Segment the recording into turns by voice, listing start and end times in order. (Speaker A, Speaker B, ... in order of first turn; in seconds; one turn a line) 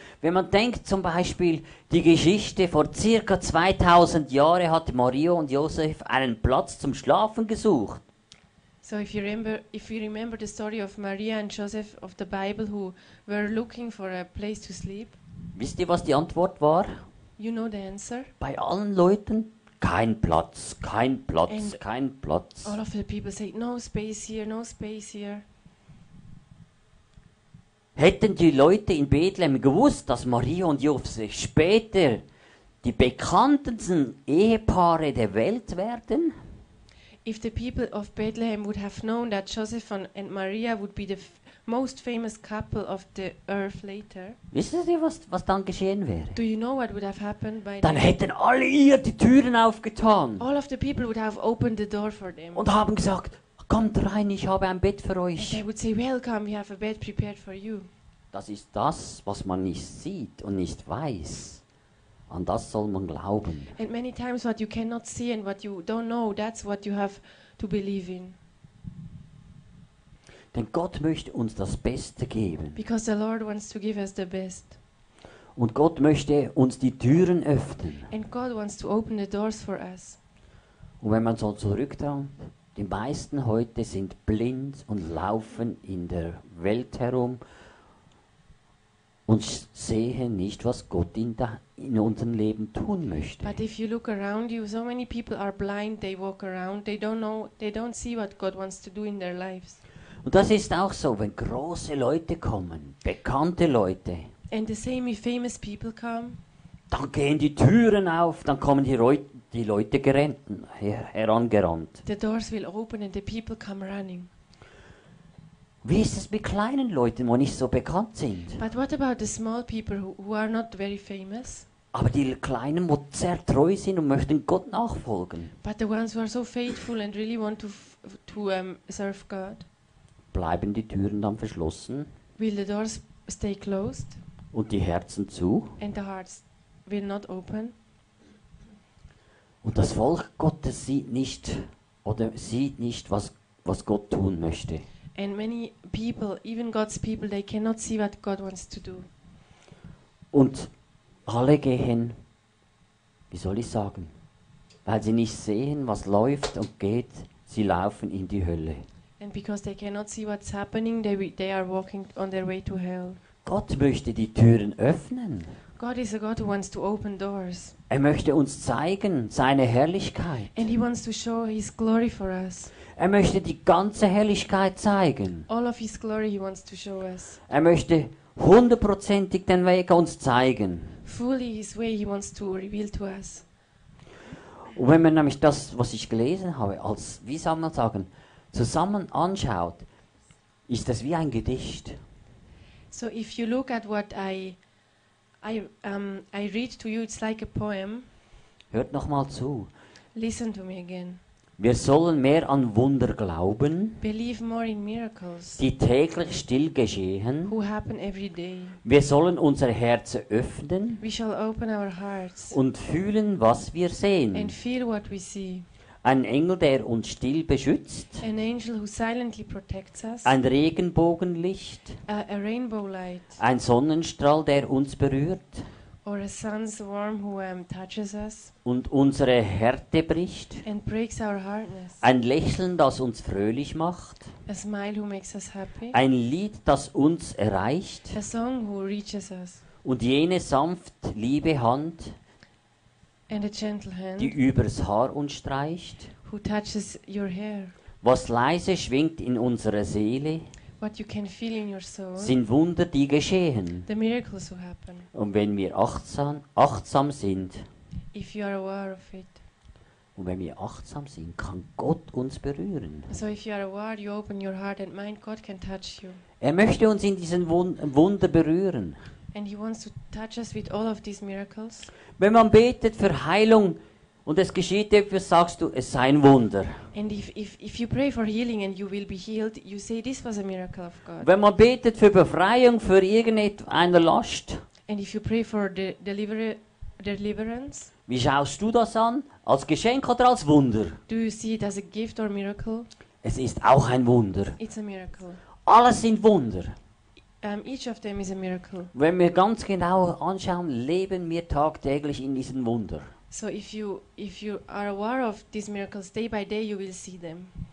Speaker A: 0.2-8.0
Speaker B: 8.8-15.2
Speaker A: 15.5-16.9
Speaker B: 17.4-18.3
Speaker A: 18.4-22.8
Speaker B: 21.5-21.8
Speaker B: 22.6-25.4
Speaker A: 27.9-32.2
Speaker A: 32.8-36.3
Speaker B: 37.2-44.4
Speaker A: 44.5-46.4
Speaker B: 46.3-48.1
Speaker A: 47.8-50.4
Speaker B: 50.4-52.7
Speaker A: 52.5-55.6
Speaker B: 55.4-57.9
Speaker A: 58.3-61.6
Speaker A: 62.3-63.7
Speaker B: 63.7-68.4
Speaker A: 70.5-72.8
Speaker B: 72.8-74.8
Speaker A: 75.5-78.1
Speaker B: 78.1-80.2
Speaker A: 81.0-87.4
Speaker A: 89.3-93.5
Speaker B: 93.4-99.8
Speaker A: 100.2-104.3
Speaker B: 104.5-106.4
Speaker A: 106.9-112.0
Speaker B: 112.0-114.3
Speaker A: 115.8-118.6
Speaker B: 118.6-121.7
Speaker A: 121.9-125.5
Speaker B: 125.6-129.7
Speaker A: 130.3-132.1
Speaker B: 132.4-134.2
Speaker A: 134.5-135.8
Speaker B: 135.8-137.7
Speaker A: 139.6-144.8
Speaker B: 145.2-149.1
Speaker A: 150.3-150.7
Speaker A: 151.2-152.2
Speaker A: 153.3-154.1
Speaker A: 154.8-158.8
Speaker B: 159.2-163.2
Speaker A: 163.4-165.5
Speaker B: 165.8-167.8
Speaker A: 167.9-170.6
Speaker B: 170.5-172.7
Speaker A: 172.9-175.5
Speaker B: 175.5-177.4
Speaker A: 177.5-180.9
Speaker B: 181.0-183.4
Speaker A: 184.7-189.8
Speaker A: 190.7-192.0
Speaker B: 192.9-194.6
Speaker B: 195.4-198.1
Speaker A: 198.7-199.7
Speaker B: 200.1-201.2
Speaker A: 201.6-204.0
Speaker B: 204.0-205.6
Speaker A: 205.6-207.5
Speaker B: 207.4-208.8
Speaker A: 208.8-211.0
Speaker B: 211.0-212.6
Speaker A: 212.5-214.5
Speaker B: 214.3-215.7
Speaker A: 216.0-218.2
Speaker B: 218.2-220.3
Speaker A: 220.2-222.0
Speaker B: 222.1-223.4
Speaker A: 223.4-225.7
Speaker B: 226.0-228.5
Speaker A: 228.6-230.6
Speaker B: 230.6-232.0
Speaker A: 232.0-234.3
Speaker B: 234.5-236.0
Speaker A: 235.9-238.2
Speaker B: 238.1-239.6
Speaker A: 239.8-242.2
Speaker B: 243.3-244.3
Speaker A: 244.2-246.1
Speaker B: 246.2-247.7
Speaker A: 248.0-250.5
Speaker B: 250.8-252.3
Speaker A: 252.2-253.9
Speaker B: 253.9-255.1
Speaker A: 255.1-257.6
Speaker B: 258.1-259.4
Speaker A: 260.1-263.1
Speaker B: 263.1-266.2
Speaker A: 266.4-269.0
Speaker B: 269.3-271.9
Speaker A: 272.2-276.8
Speaker B: 276.9-281.3
Speaker A: 281.2-284.6
Speaker B: 284.9-287.9
Speaker A: 288.1-291.0
Speaker B: 291.1-292.9
Speaker A: 293.2-294.6
Speaker B: 294.6-295.4
Speaker A: 295.6-296.8
Speaker B: 297.4-298.9
Speaker A: 298.9-303.1
Speaker B: 303.3-307.5